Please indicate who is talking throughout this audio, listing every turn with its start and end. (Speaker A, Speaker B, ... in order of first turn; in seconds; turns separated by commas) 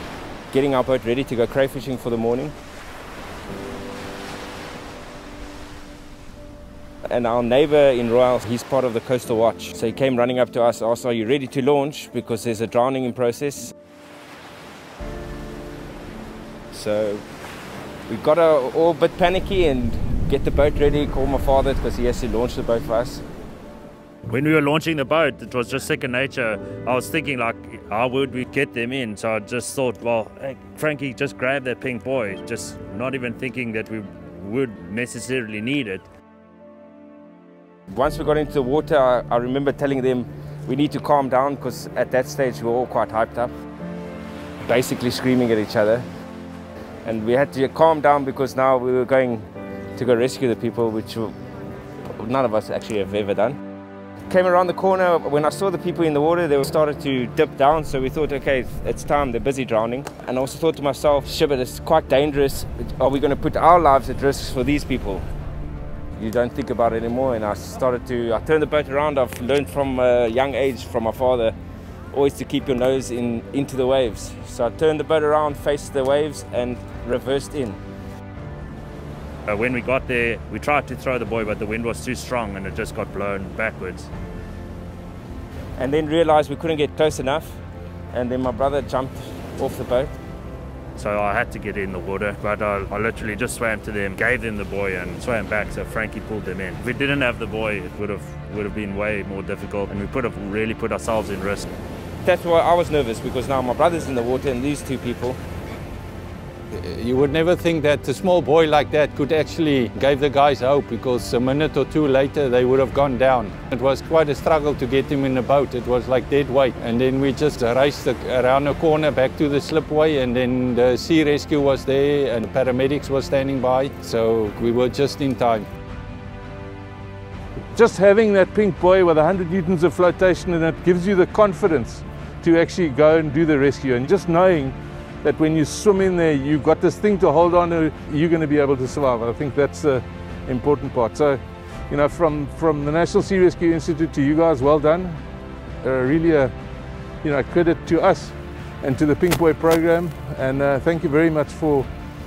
Speaker A: 0.5-2.5, Speaker A: 7.1-13.7, Speaker A: 16.7-17.2, Speaker A: 18.1-23.2, Speaker B: 24.3-36.0, Speaker A: 37.9-43.5, Speaker A: 44.7-46.0, Speaker A: 47.0-49.4, Speaker A: 50.0-51.3, Speaker A: 52.1-53.5, Speaker A: 54.3-65.2, Speaker A: 66.2-71.5, Speaker A: 72.1-77.8, Speaker B: 79.5-84.1, Speaker A: 85.8-87.6, Speaker A: 88.1-90.1, Speaker B: 91.0-101.7, Speaker A: 102.2-105.4, Speaker C: 106.7-125.7, Speaker D: 127.7-145.2, Speaker D: 145.8-146.5, Speaker D: 147.2-151.9